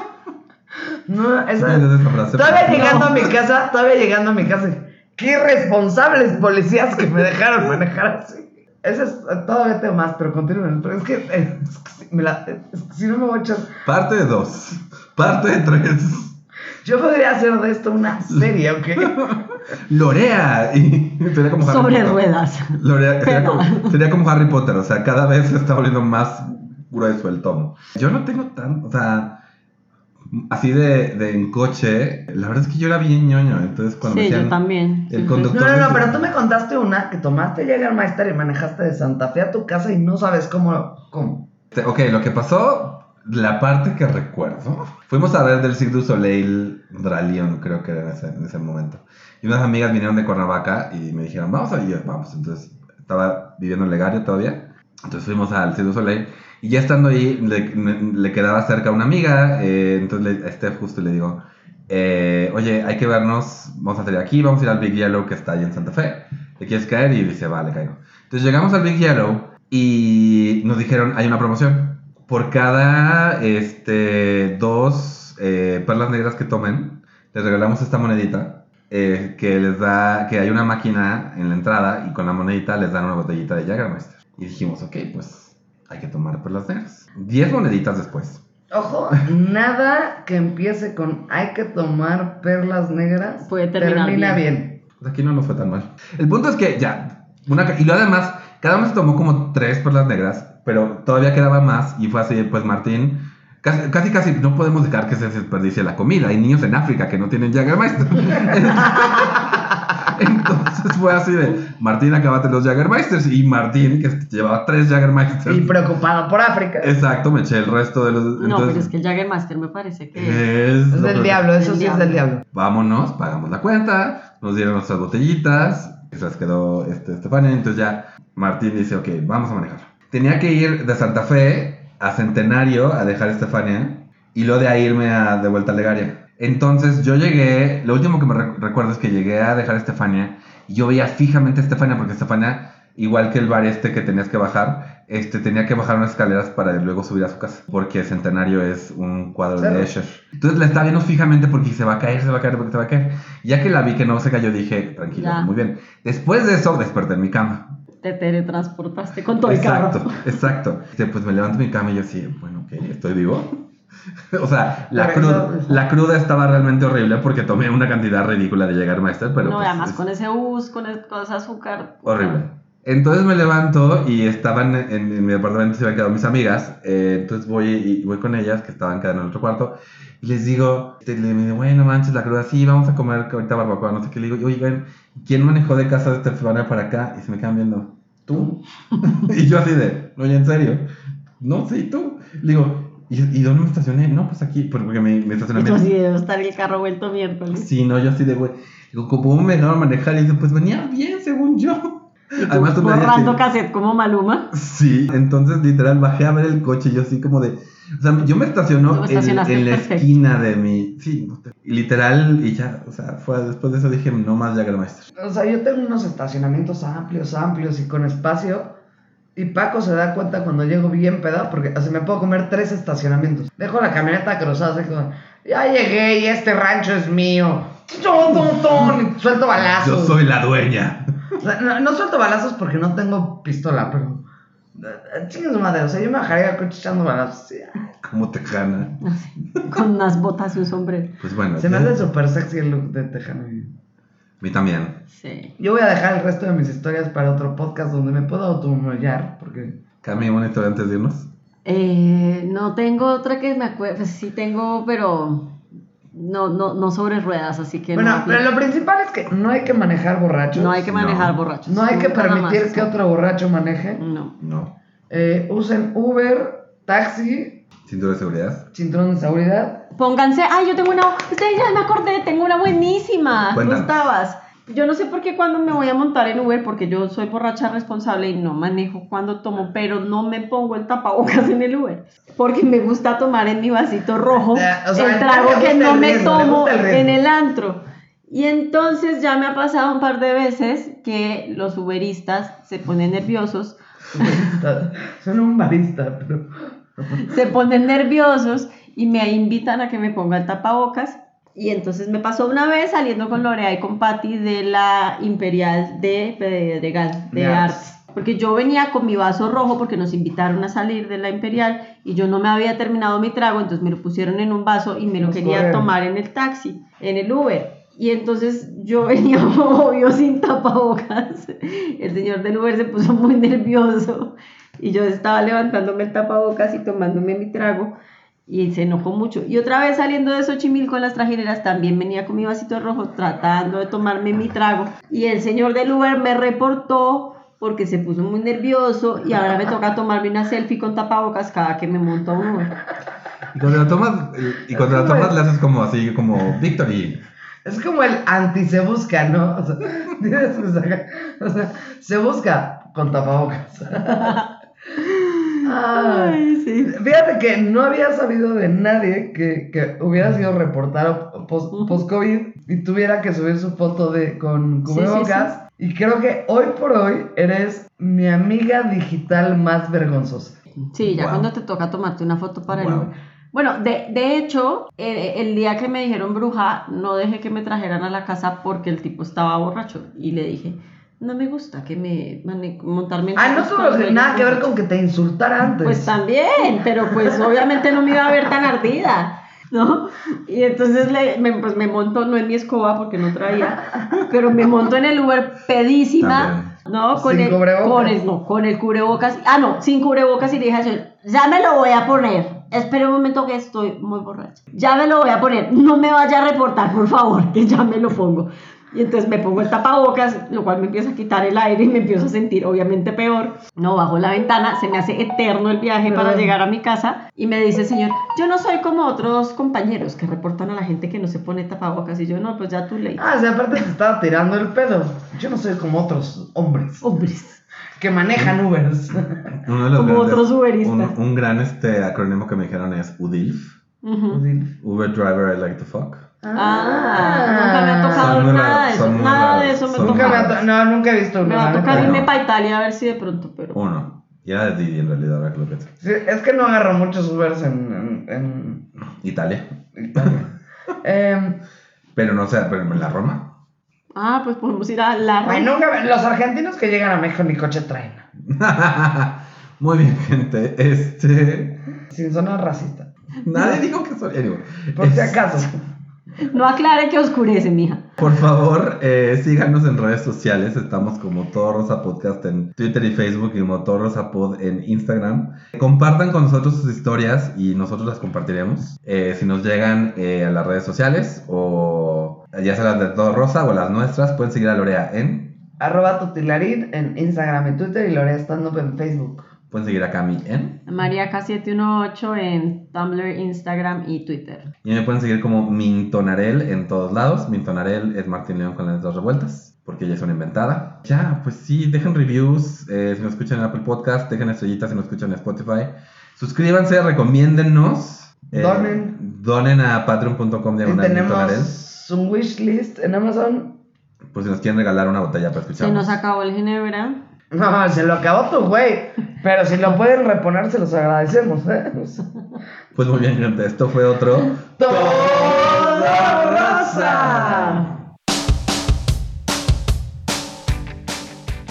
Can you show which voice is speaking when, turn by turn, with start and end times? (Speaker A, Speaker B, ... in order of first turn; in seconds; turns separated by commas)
Speaker A: 1.1-13.8, Speaker B: 1.6-3.3, Speaker C: 2.7-3.0, Speaker B: 13.8-16.3, Speaker A: 16.8-19.4, Speaker B: 19.0-22.2, Speaker C: 21.6-24.0, Speaker B: 22.7-29.4, Speaker B: 30.3-34.6, Speaker C: 34.0-35.5, Speaker B: 35.1-36.3, Speaker A: 35.5-41.5, Speaker B: 41.7-88.4, Speaker A: 88.7-94.8, Speaker C: 93.4-94.4, Speaker B: 95.0-115.8, Speaker A: 115.5-116.9, Speaker B: 116.8-118.9, Speaker C: 118.4-120.4, Speaker B: 120.1-121.5, Speaker A: 120.9-122.4, Speaker C: 121.5-122.2, Speaker B: 122.5-157.7, Speaker A: 149.6-149.9, Speaker C: 155.1-155.5, Speaker C: 158.0-160.3, Speaker B: 159.4-163.6, Speaker B: 164.3-170.0, Speaker A: 164.9-165.8, Speaker C: 169.4-172.4, Speaker B: 172.0-190.8, Speaker B: 191.4-195.9, Speaker C: 195.5-197.7, Speaker B: 197.5-203.4, Speaker C: 202.4-204.5, Speaker B: 204.5-215.1, Speaker C: 208.9-210.1, Speaker A: 215.1-218.7, Speaker A: 219.3-230.2, Speaker B: 229.6-231.0, Speaker A: 231.4-237.9, Speaker B: 238.0-239.0, Speaker C: 239.0-241.2, Speaker B: 241.2-242.0, Speaker A: 241.6-243.7, Speaker B: 244.4-245.0, Speaker C: 245.1-245.5, Speaker A: 245.6-249.8, Speaker B: 250.0-251.3, Speaker C: 251.7-255.6, Speaker C: 256.1-258.4, Speaker A: 257.9-260.8, Speaker C: 260.5-262.9, Speaker B: 260.8-261.4, Speaker A: 261.7-264.0, Speaker C: 264.0-264.3, Speaker B: 264.4-264.7, Speaker A: 265.1-267.6, Speaker B: 267.9-268.6, Speaker A: 268.7-269.9, Speaker C: 269.9-294.4, Speaker B: 273.5-274.1, Speaker A: 284.5-287.2, Speaker A: 294.1-297.3, Speaker C: 297.2-327.9, Speaker A: 307.3-307.8, Speaker A: 315.2-315.9, Speaker C: 328.5-342.7, Speaker B: 343.5-347.2, Speaker A: 344.7-345.4, Speaker A: 347.6-354.4, Speaker C: 354.1-354.5, Speaker C: 355.0-356.9, Speaker A: 355.6-370.6, Speaker C: 361.7-362.0, Speaker C: 364.9-365.5, Speaker C: 370.9-384.7, Speaker B: 371.0-371.5, Speaker B: 372.7-373.1, Speaker A: 383.4-386.1, Speaker C: 385.8-423.3, Speaker B: 396.2-396.7, Speaker A: 397.1-398.1, Speaker A: 416.0-416.5, Speaker A: 423.2-427.0, Speaker C: 427.0-427.6, Speaker A: 428.0-429.5, Speaker B: 429.6-433.8, Speaker C: 429.9-431.1, Speaker C: 434.0-434.4, Speaker A: 434.3-434.7, Speaker B: 434.8-436.3, Speaker A: 436.4-438.4, Speaker C: 436.5-440.6, Speaker B: 438.2-440.6, Speaker A: 440.0-442.2, Speaker C: 441.4-443.8, Speaker B: 441.9-442.3, Speaker B: 443.7-445.9, Speaker A: 446.0-448.9, Speaker B: 449.2-449.6, Speaker A: 449.9-450.5, Speaker A: 451.0-451.6, Speaker B: 452.1-453.5, Speaker C: 454.1-455.7, Speaker A: 455.4-458.2, Speaker B: 458.5-461.8, Speaker A: 462.1-463.8, Speaker B: 463.4-465.6, Speaker A: 464.9-465.7, Speaker C: 466.4-468.1, Speaker B: 468.2-485.6, Speaker A: 485.8-489.5, Speaker B: 489.7-490.8, Speaker C: 490.9-494.7, Speaker B: 494.8-511.7, Speaker A: 508.5-509.2, Speaker A: 510.8-513.8, Speaker B: 514.3-516.2, Speaker C: 515.8-517.2, Speaker A: 517.5-522.2, Speaker B: 522.9-527.8, Speaker A: 524.8-527.9